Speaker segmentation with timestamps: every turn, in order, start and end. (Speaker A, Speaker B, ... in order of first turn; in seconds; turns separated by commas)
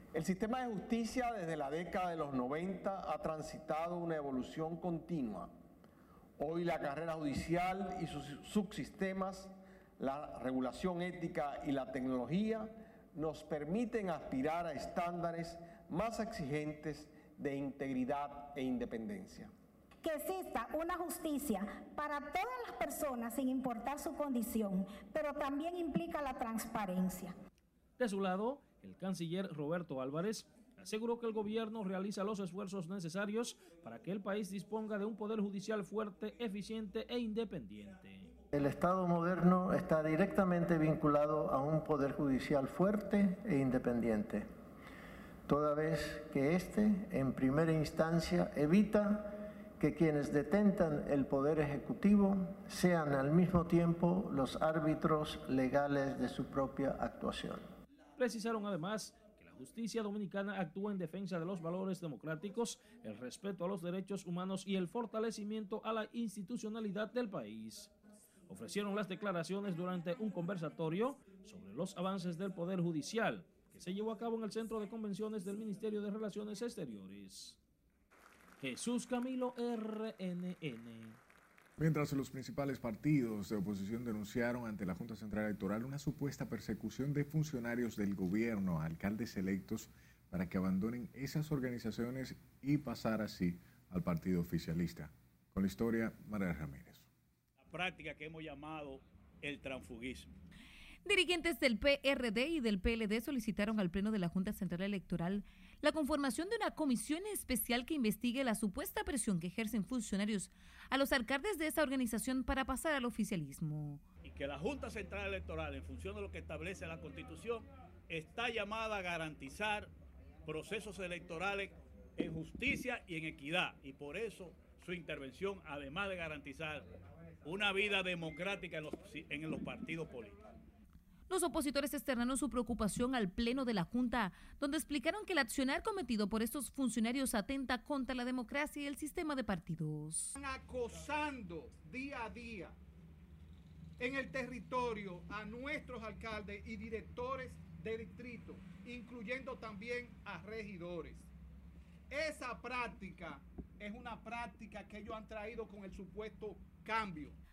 Speaker A: 0.2-5.5, Speaker A: 6.4-19.5, Speaker B: 20.0-27.3, Speaker C: 28.0-38.4, Speaker D: 38.5-44.5, Speaker D: 45.5-57.6, Speaker C: 58.2-67.9, Speaker C: 68.5-77.6, Speaker C: 78.6-81.2, Speaker E: 81.8-97.1, Speaker F: 97.7-100.3, Speaker G: 101.0-114.0, Speaker F: 114.2-119.9, Speaker F: 120.5-126.9, Speaker F: 127.4-130.4, Speaker G: 131.3-140.3, Speaker H: 140.4-142.7, Speaker H: 144.0-151.2, Speaker H: 152.1-157.3